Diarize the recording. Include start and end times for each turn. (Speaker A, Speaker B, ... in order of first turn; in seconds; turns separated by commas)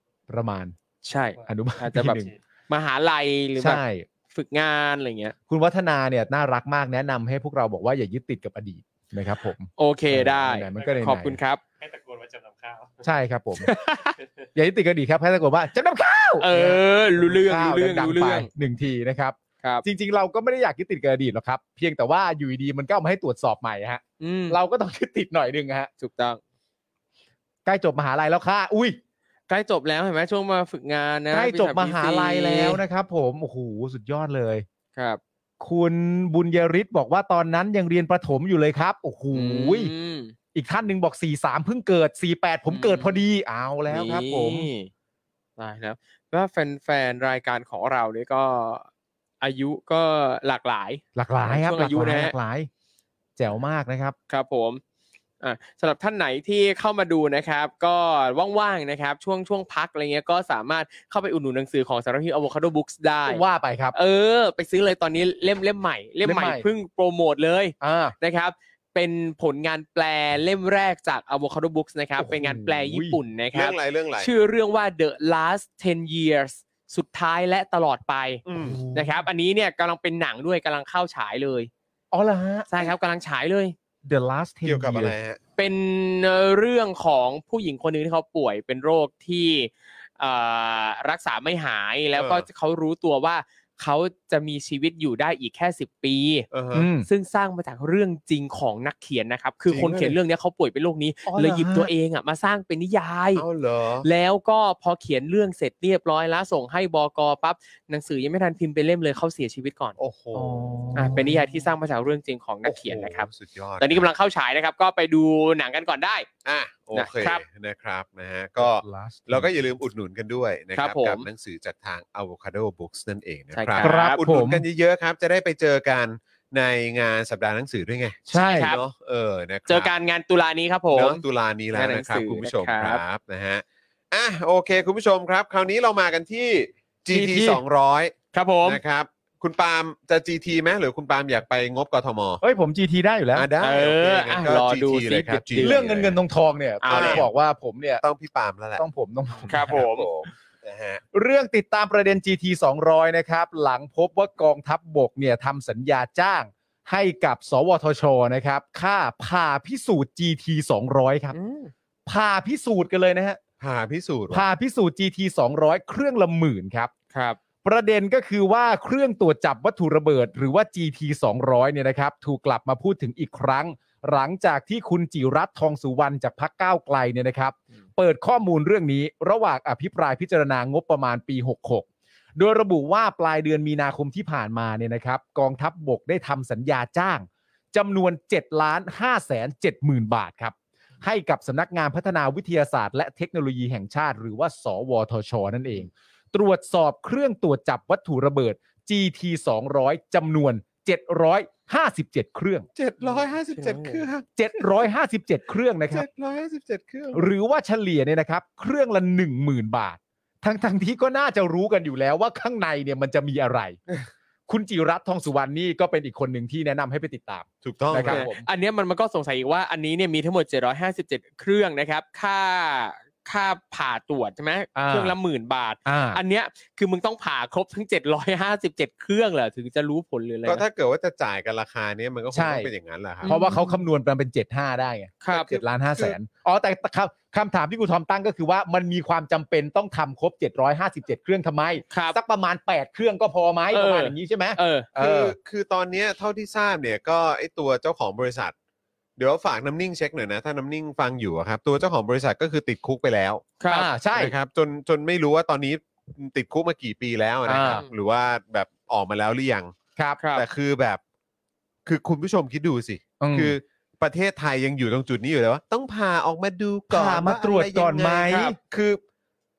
Speaker A: 0.3-0.7, Speaker B: 1.0-5.3, Speaker A: 1.4-2.3, Speaker C: 2.1-2.4, Speaker A: 3.6-4.0, Speaker A: 5.5-11.4, Speaker B: 9.8-11.6, Speaker C: 10.8-11.1, Speaker C: 11.7-13.1, Speaker A: 13.0-13.7, Speaker B: 13.6-14.2, Speaker C: 14.2-14.4, Speaker A: 14.5-25.9, Speaker B: 16.4-18.5, Speaker B: 24.2-24.6, Speaker B: 26.0-26.4, Speaker A: 27.6-29.0, Speaker B: 29.5-32.8, Speaker A: 31.3-34.6, Speaker A: 35.6-39.9, Speaker B: 39.3-40.3, Speaker A: 40.5-44.7, Speaker B: 42.7-43.2, Speaker B: 43.9-44.9, Speaker B: 45.6-48.9, Speaker B: 49.4-52.3, Speaker A: 51.1-52.7, Speaker A: 53.4-54.1, Speaker B: 54.3-54.8, Speaker B: 55.4-81.7, Speaker A: 63.2-64.0, Speaker A: 66.2-66.6, Speaker A: 67.8-68.1, Speaker A: 72.2-73.2, Speaker D: 73.5-74.3, Speaker D: 78.5-78.8, Speaker A: 78.6-79.2, Speaker A: 82.1-82.9, Speaker B: 82.7-83.7, Speaker A: 84.0-85.1, Speaker D: 84.6-85.4, Speaker B: 85.6-96.5, Speaker D: 92.2-92.4, Speaker D: 96.5-96.9, Speaker A: 96.7-97.1, Speaker B: 97.0-103.4, Speaker D: 99.7-100.2, Speaker A: 101.2-101.9, Speaker D: 103.3-104.0, Speaker B: 104.0-110.0, Speaker D: 110.0-110.7, Speaker A: 110.3-111.4, Speaker B: 110.9-113.3, Speaker D: 112.6-114.0, Speaker B: 113.8-116.3, Speaker D: 116.4-129.9, Speaker B: 116.9-117.4, Speaker A: 118.6-119.5, Speaker B: 120.8-121.2, Speaker B: 123.5-124.2, Speaker A: 123.8-124.6, Speaker A: 128.3-128.7, Speaker B: 128.4-128.8, Speaker B: 129.7-131.2, Speaker D: 130.9-138.1, Speaker B: 131.7-133.0, Speaker A: 137.1-137.6, Speaker B: 138.3-138.8, Speaker D: 138.6-142.4, Speaker A: 142.4-143.5, Speaker D: 143.3-146.2, Speaker B: 143.6-145.8, Speaker A: 145.6-148.0, Speaker B: 146.8-147.2, Speaker D: 146.9-147.3, Speaker D: 148.0-148.8, Speaker A: 148.8-149.8, Speaker D: 149.4-151.0, Speaker B: 149.5-150.1, Speaker A: 151.1-161.3, Speaker B: 161.3-161.7, Speaker A: 162.1-163.4, Speaker D: 163.6-164.4, Speaker A: 164.3-166.9, Speaker B: 167.1-167.4, Speaker A: 167.6-202.7, Speaker D: 202.8-204.3, Speaker B: 203.0-204.0, Speaker A: 204.3-206.1, Speaker D: 205.9-207.2, Speaker A: 207.1-213.8, Speaker A: 214.5-218.5, Speaker D: 217.6-218.3, Speaker B: 217.9-230.6, Speaker A: 224.7-225.1, Speaker A: 225.8-226.2, Speaker D: 230.4-233.3, Speaker A: 232.3-232.7, Speaker B: 233.2-233.8, Speaker A: 233.2-245.3, Speaker B: 235.2-235.5, Speaker D: 235.5-236.2, Speaker B: 241.9-242.2, Speaker B: 243.7-244.9, Speaker D: 245.0-248.5, Speaker D: 249.2-253.6, Speaker B: 253.6-253.9, Speaker A: 253.7-254.3, Speaker D: 254.1-259.7, Speaker A: 257.4-257.8, Speaker B: 257.6-257.9, Speaker B: 260.2-260.4, Speaker D: 260.3-261.0, Speaker D: 261.9-269.0, Speaker A: 263.2-263.5, Speaker A: 266.9-268.6, Speaker B: 268.3-268.6